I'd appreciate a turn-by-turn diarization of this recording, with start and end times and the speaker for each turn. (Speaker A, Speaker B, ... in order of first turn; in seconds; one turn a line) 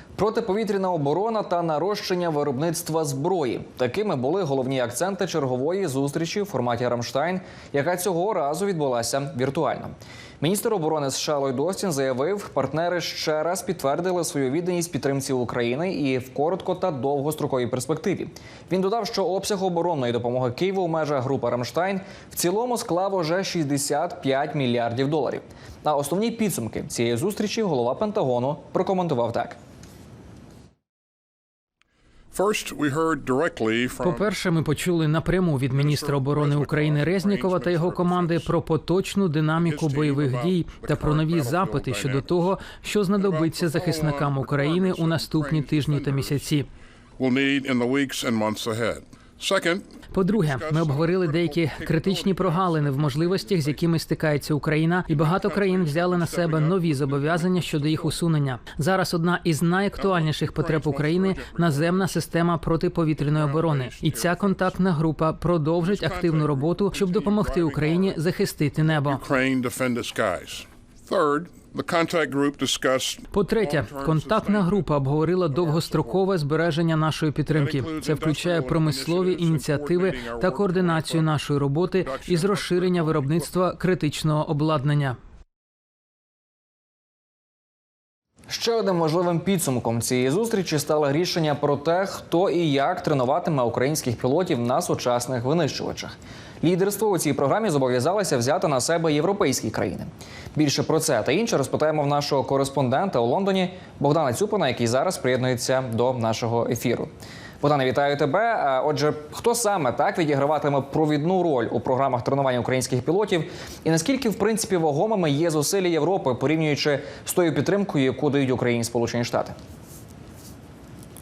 Speaker A: 0.2-29.6
Speaker B: 32.3-34.2
Speaker C: 34.0-46.6
Speaker B: 35.7-38.5
Speaker B: 39.6-42.5
Speaker B: 43.2-46.6
Speaker B: 47.2-53.9
Speaker C: 50.1-69.2
Speaker B: 55.0-58.2
Speaker B: 59.9-62.3
Speaker B: 63.2-64.8
Speaker B: 65.8-68.2
Speaker B: 68.8-74.9
Speaker C: 73.3-85.2
Speaker B: 75.5-76.3
Speaker B: 77.5-81.3
Speaker B: 81.9-83.5
Speaker A: 88.5-107.1
Speaker A: 107.6-119.5